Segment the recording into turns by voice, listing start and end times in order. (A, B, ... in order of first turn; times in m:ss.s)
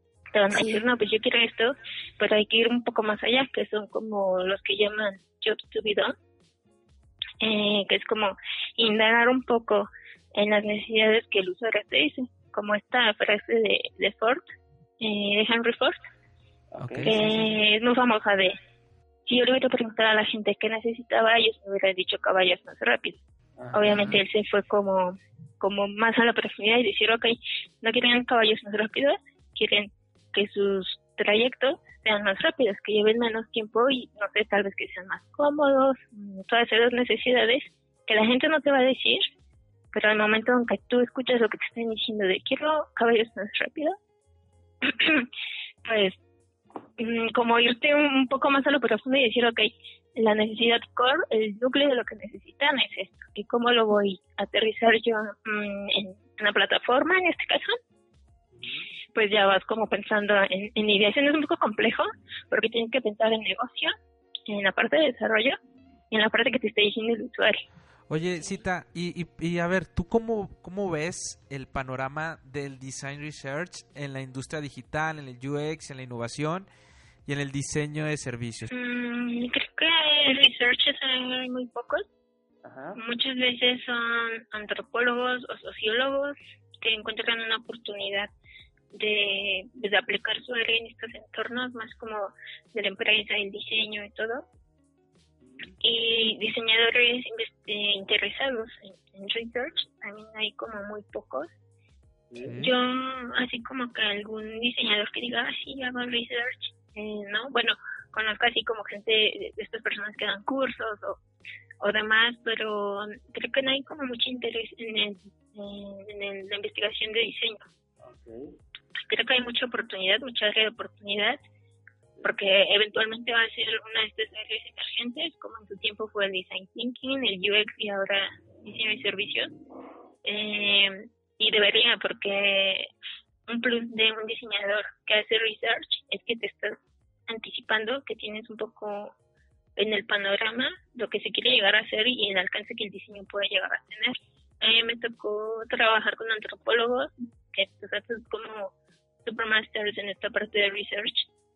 0:00.3-0:06.1 A
0:07.4-0:14.4 A
0:15.0-0:16.0 A
0:16.7-0:17.3 B
0:16.8-0:17.2 C
0:17.0-0:18.6 A
0:19.2-0:39.2 A
0:23.6-0:24.1 B
0:23.8-0:24.2 C
0:39.9-0:44.0 A
0:44.8-0:45.3 A
0:45.8-0:46.2 A
0:47.0-0:57.7 A
0:58.5-0:58.9 B
0:59.1-1:03.9 A
1:04.5-1:05.6 A
1:06.1-1:07.6 A
1:08.1-1:16.7 C
1:17.2-1:18.7 C
1:18.7-1:22.0 A
1:22.6-1:23.0 B
1:23.0-1:28.3 A
1:28.9-1:34.4 A
1:35.4-1:35.7 B
1:35.8-1:41.5 A
1:42.3-1:42.7 B
1:42.4-1:42.7 C
1:42.5-1:51.2 A
1:51.8-1:57.6 A
1:58.0-1:58.6 B
1:59.0-2:01.4 A
2:02.2-2:09.5 A
2:10.2-2:12.9 A
2:13.5-2:16.8 A
2:17.3-2:19.1 A
2:19.8-2:28.7 A
2:29.2-2:31.3 A